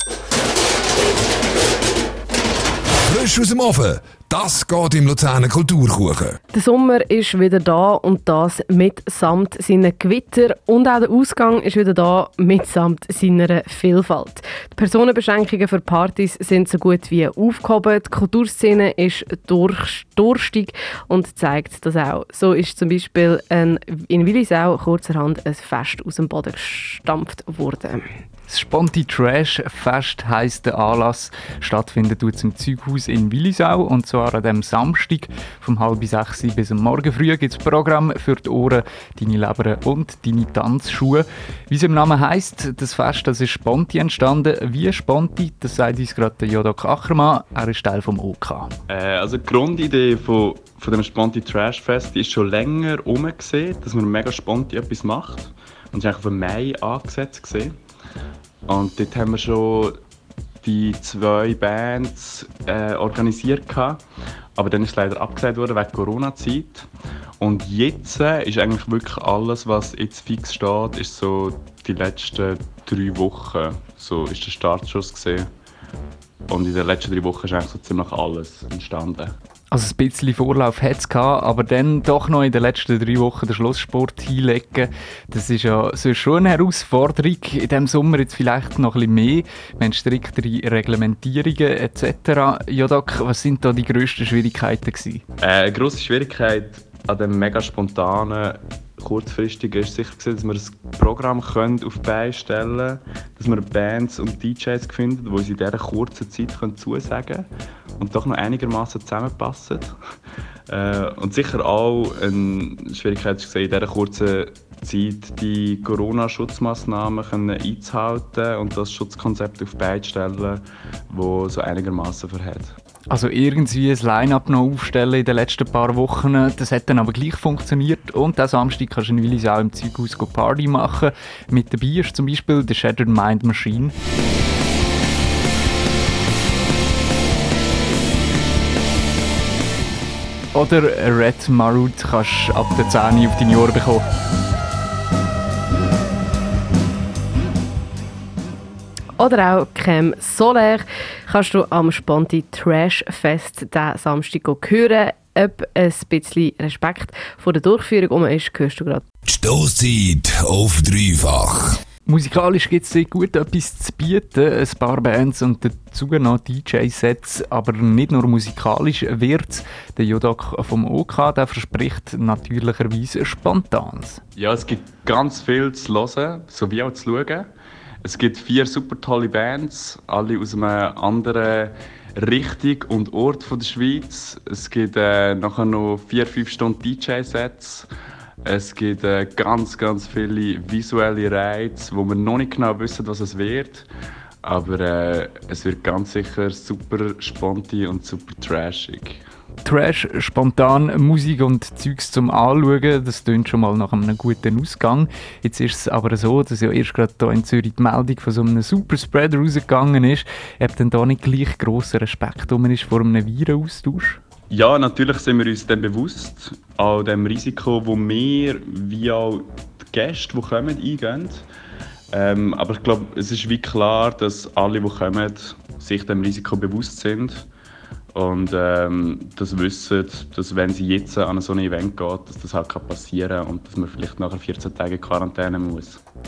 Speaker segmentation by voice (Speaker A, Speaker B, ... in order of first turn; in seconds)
Speaker A: 3.1-6.3, 159.3-161.8
Speaker B: 6.5-28.1, 149.2-159.0
Speaker C: 28.5-48.7, 79.7-95.2, 123.1-133.9, 140.5-144.0, 162.1-174.2, 199.6-214.2
Speaker D: 48.9-57.7, 58.7-60.0, 60.6-64.0, 64.5-66.9, 67.4-75.5, 76.5-79.3, 95.4-110.0, 110.7-122.7, 174.3-177.5, 178.0-187.9, 188.4-193.9, 194.4-199.2, 214.5-221.4, 222.1-227.5, 228.1-236.0